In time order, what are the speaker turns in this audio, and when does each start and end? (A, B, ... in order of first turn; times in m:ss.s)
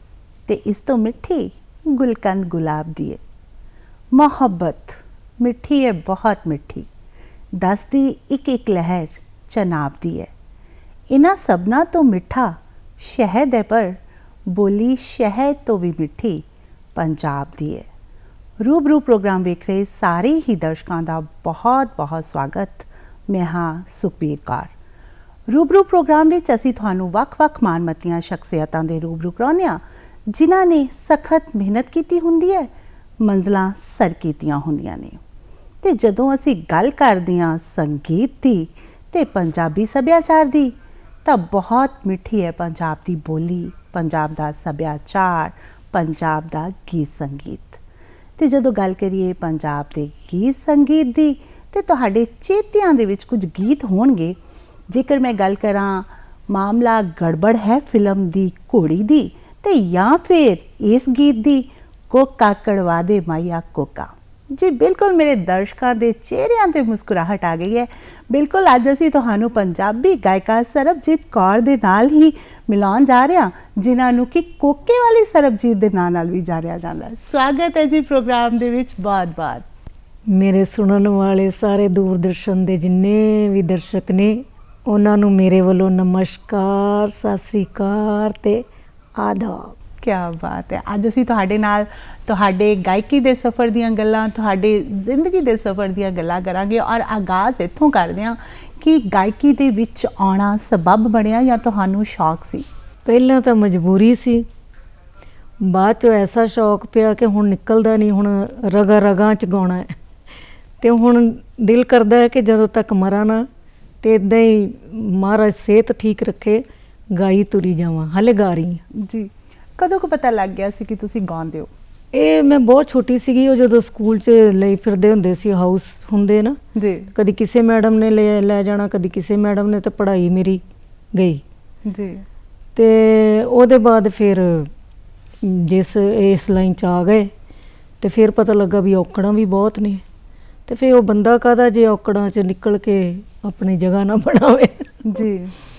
0:00.5-0:03.2 A
0:04.1-0:06.9 A
0:07.6-0:10.3 A
0:11.1-0:17.9 A
0:18.6-0:24.7 A
0:25.5-0:35.2 A
0:35.8-0:47.8 A
0:48.4-0:54.4 A
0:54.9-1:19.7 A
1:20.3-1:28.6 B
1:29.2-1:29.8 B
1:30.0-1:42.6 A
1:43.0-1:44.4 B
1:45.6-1:50.0 B
1:50.8-1:53.5 B
1:54.0-1:58.8 B
1:58.9-2:01.7 A
2:02.1-2:06.6 B
2:06.7-2:07.1 A
2:07.1-2:10.6 B
2:11.1-2:11.4 B
2:11.8-2:12.2 A
2:12.7-2:14.7 B
2:15.4-2:17.3 B
2:18.0-2:20.0 B
2:20.7-2:25.2 B
2:25.0-2:25.5 A